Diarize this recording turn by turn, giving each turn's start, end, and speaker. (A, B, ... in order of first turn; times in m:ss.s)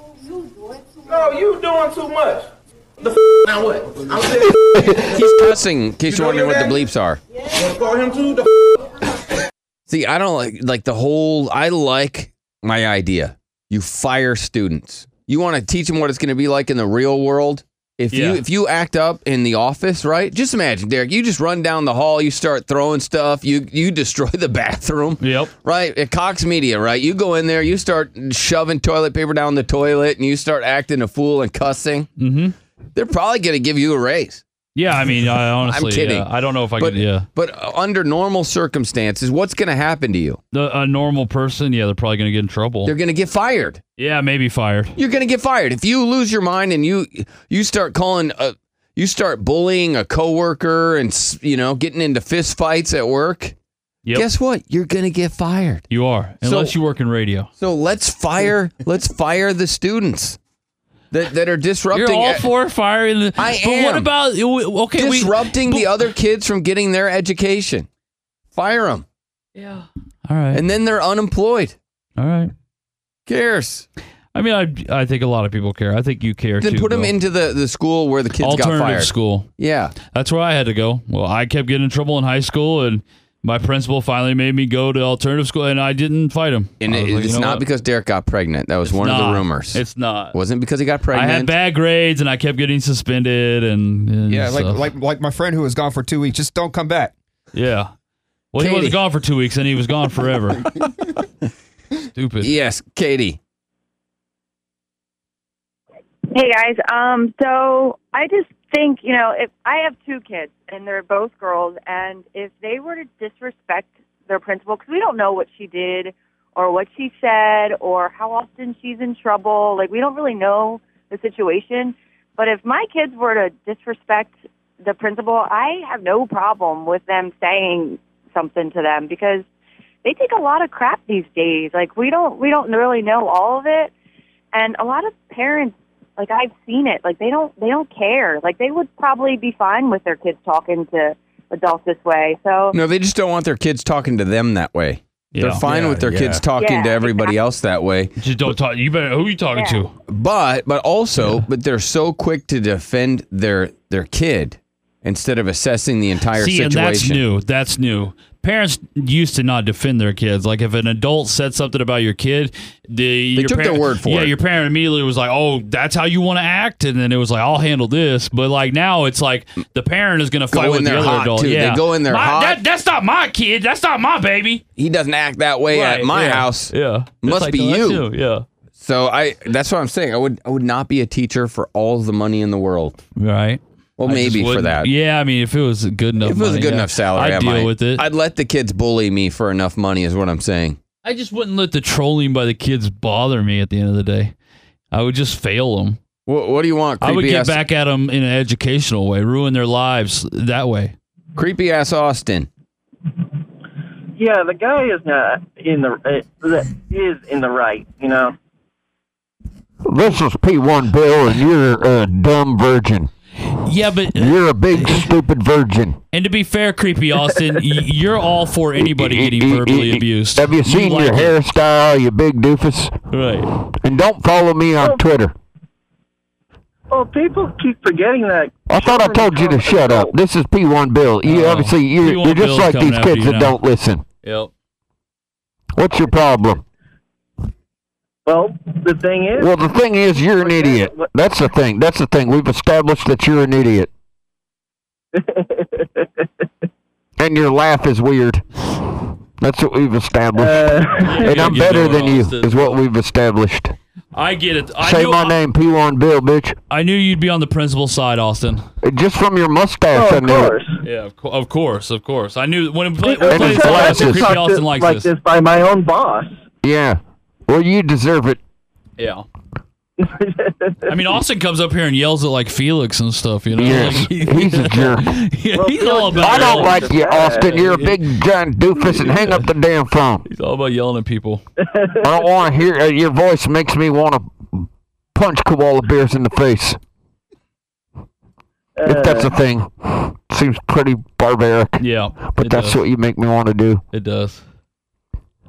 0:01.0-0:02.5 A
0:03.0-0:05.0 A
0:04.9-0:07.2 B
0:06.0-0:06.8 A
0:07.6-0:08.5 A
0:09.9-0:32.1 B
0:18.1-0:18.4 C
0:25.2-0:25.5 C
0:32.2-0:32.6 C
0:33.0-0:34.4 B
0:34.8-0:37.3 C
0:35.6-0:36.3 B
0:36.8-0:40.4 B
0:40.5-0:42.9 C
0:42.9-0:43.8 B
0:44.0-0:44.9 C
0:45.0-0:53.5 B
0:54.1-0:55.8 B
0:55.9-0:57.5 C
0:56.4-0:56.7 B
0:57.6-1:00.4 B
1:01.1-1:02.5 B
1:01.9-1:06.0 C
1:03.4-1:04.1 B
1:05.0-1:07.9 B
1:08.5-1:09.0 B
1:09.6-1:10.6 C
1:10.5-1:11.8 B
1:12.2-1:12.5 C
1:13.3-1:13.9 B
1:14.3-1:17.1 C
1:16.6-1:20.0 B
1:18.4-1:19.5 C
1:20.0-1:27.6 C
1:26.8-1:29.8 B
1:28.9-1:30.4 C
1:30.3-1:31.5 B
1:31.1-1:34.9 C
1:34.3-1:37.1 D
1:37.5-1:37.9 C
1:38.5-1:40.7 C
1:38.6-1:39.0 B
1:42.1-1:42.5 C
1:42.4-1:43.4 B
1:46.3-2:09.4 E
2:10.0-2:13.9 E
2:14.5-2:22.8 E
2:22.7-2:28.2 B
2:25.3-2:26.4 C
2:26.5-2:27.4 E
2:28.2-2:29.9 C
2:29.5-2:29.9 E
2:30.1-2:37.2 B
2:36.3-2:54.6 C
2:43.4-2:44.3 B
2:50.5-2:52.6 B
2:54.8-2:58.1 B
2:55.7-2:58.4 C
2:58.8-3:03.0 B
3:03.2-3:08.0 C
3:04.0-3:04.9 B
3:06.2-3:10.8 B
3:11.0-3:14.3 C
3:14.9-3:16.0 C
3:16.3-3:17.6 B
3:17.0-3:20.9 C
3:21.4-3:22.5 B
3:24.2-3:28.4 F
3:29.9-3:33.1 G
3:33.4-3:35.1 C
3:34.1-3:36.0 G
3:36.1-3:41.4 C
3:38.8-3:43.0 G
3:43.1-3:43.5 C
3:43.7-3:45.3 G
3:46.9-3:50.1 F
3:48.7-3:54.0 G
3:51.2-3:53.6 C
3:54.2-3:54.5 C
3:55.8-3:56.6 G
3:58.3-3:59.5 F
3:59.4-4:03.9 G
4:00.4-4:01.0 F
4:05.3-4:06.0 F
4:07.2-4:13.8 G
4:10.4-4:11.2 F
4:11.0-4:12.8 C
4:14.1-4:15.4 C
4:14.8-4:16.6 G
4:16.7-4:18.6 C
4:18.8-4:20.6 G
4:19.9-4:20.7 F
4:20.8-4:25.1 C
4:23.0-4:26.3 F
4:23.2-4:24.4 G
4:26.6-4:28.4 G
4:29.0-4:29.3 C
4:30.0-4:30.7 F
4:30.9-4:38.1 C
4:33.5-4:35.1 G
4:35.6-4:37.5 F
4:35.9-4:40.3 G
4:38.8-4:39.5 C
4:40.3-4:41.4 C
4:42.0-4:46.8 G
4:48.8-4:51.8 G
4:48.9-4:49.2 F
4:51.8-4:52.8 C
4:52.3-4:53.8 G
4:53.9-4:54.4 C